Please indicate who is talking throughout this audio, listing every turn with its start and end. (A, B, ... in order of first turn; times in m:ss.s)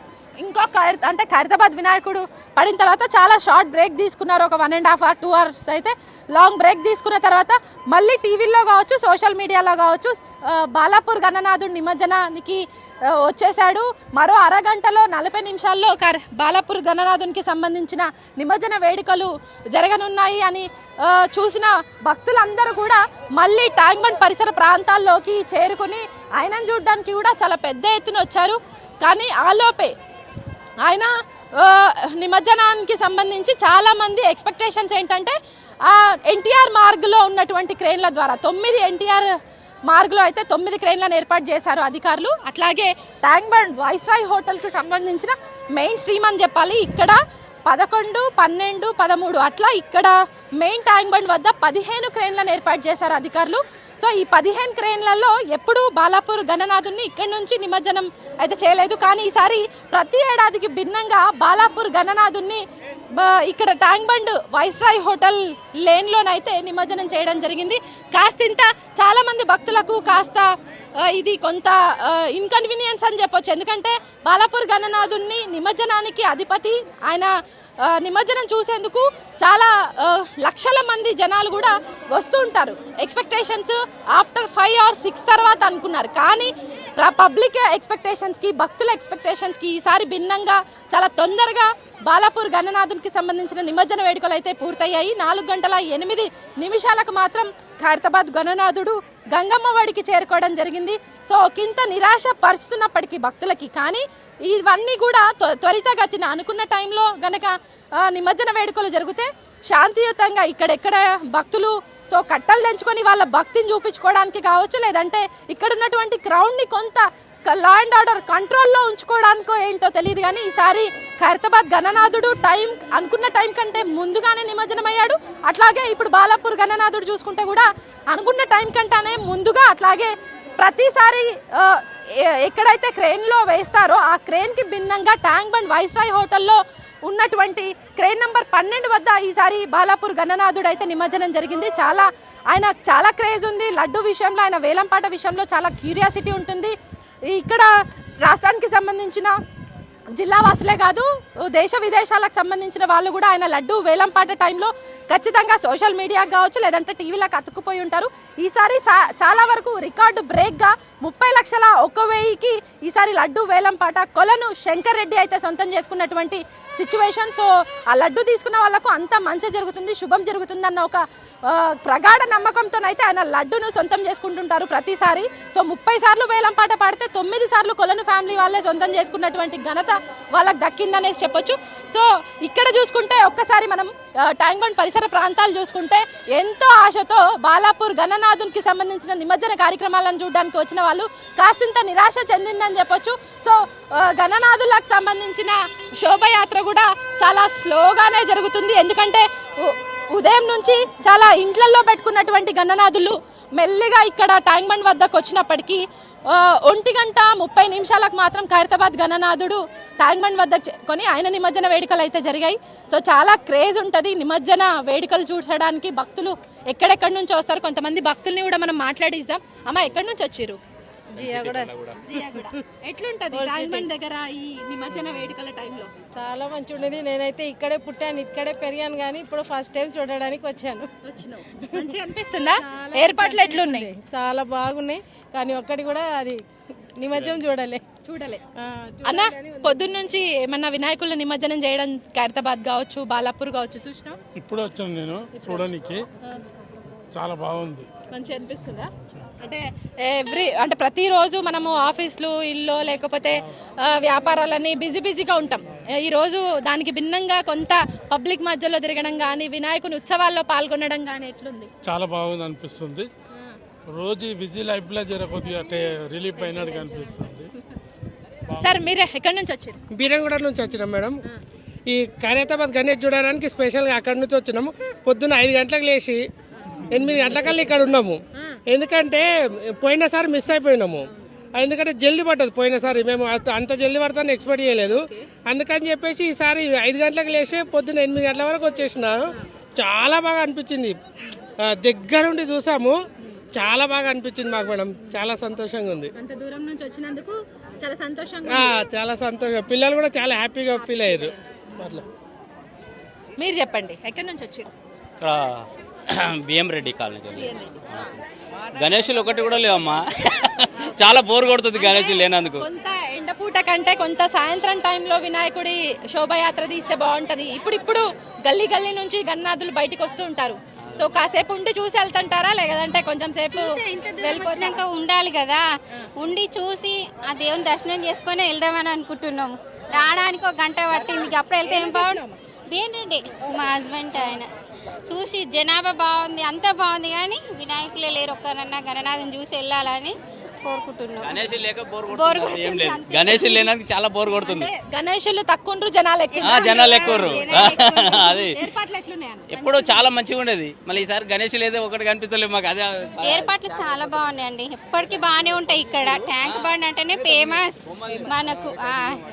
0:00.4-0:29.9 A
0:30.8-0:39.3 A
0:39.9-1:10.5 A
1:11.0-1:17.3 A
1:17.8-2:26.7 A
2:27.3-2:27.7 A
2:28.2-2:29.4 A
2:30.2-3:40.6 A
3:41.1-3:42.0 B
3:41.1-3:41.7 C
3:42.0-3:45.9 A
3:43.3-3:43.9 C
3:46.2-3:50.9 C
3:51.0-3:53.9 A
3:52.6-3:56.4 C
3:57.0-3:57.8 C
3:58.0-3:58.4 A
3:58.6-3:59.9 C
3:59.0-4:04.2 A
4:04.4-4:06.1 D
4:05.3-4:05.7 A
4:07.1-4:07.9 D
4:08.1-4:21.7 A
4:09.0-4:09.3 D
4:21.8-4:23.1 D
4:23.9-4:27.5 D
4:26.4-4:27.1 A
4:28.6-4:29.8 A
4:30.0-4:31.2 E
4:31.9-4:36.2 E
4:36.9-4:49.2 E
4:49.8-4:51.0 E
4:51.6-4:53.0 E
4:53.5-4:56.1 E
4:56.2-4:58.8 A
4:58.5-5:02.0 E
5:00.8-5:02.0 A
5:03.4-5:04.7 A
5:05.2-5:08.2 B
5:07.4-5:07.8 A
5:08.7-5:12.6 B
5:11.8-5:24.8 A
5:23.5-5:25.6 F
5:26.2-5:32.2 F
5:31.6-5:32.4 A
5:32.7-5:34.5 F
5:35.1-5:41.4 F
5:41.2-5:44.7 B
5:42.1-5:43.7 F
5:44.4-5:49.9 A
5:46.4-5:48.5 F
5:46.4-5:48.6 B
5:49.5-5:54.1 B
5:53.2-5:59.2 F
5:56.1-5:58.8 B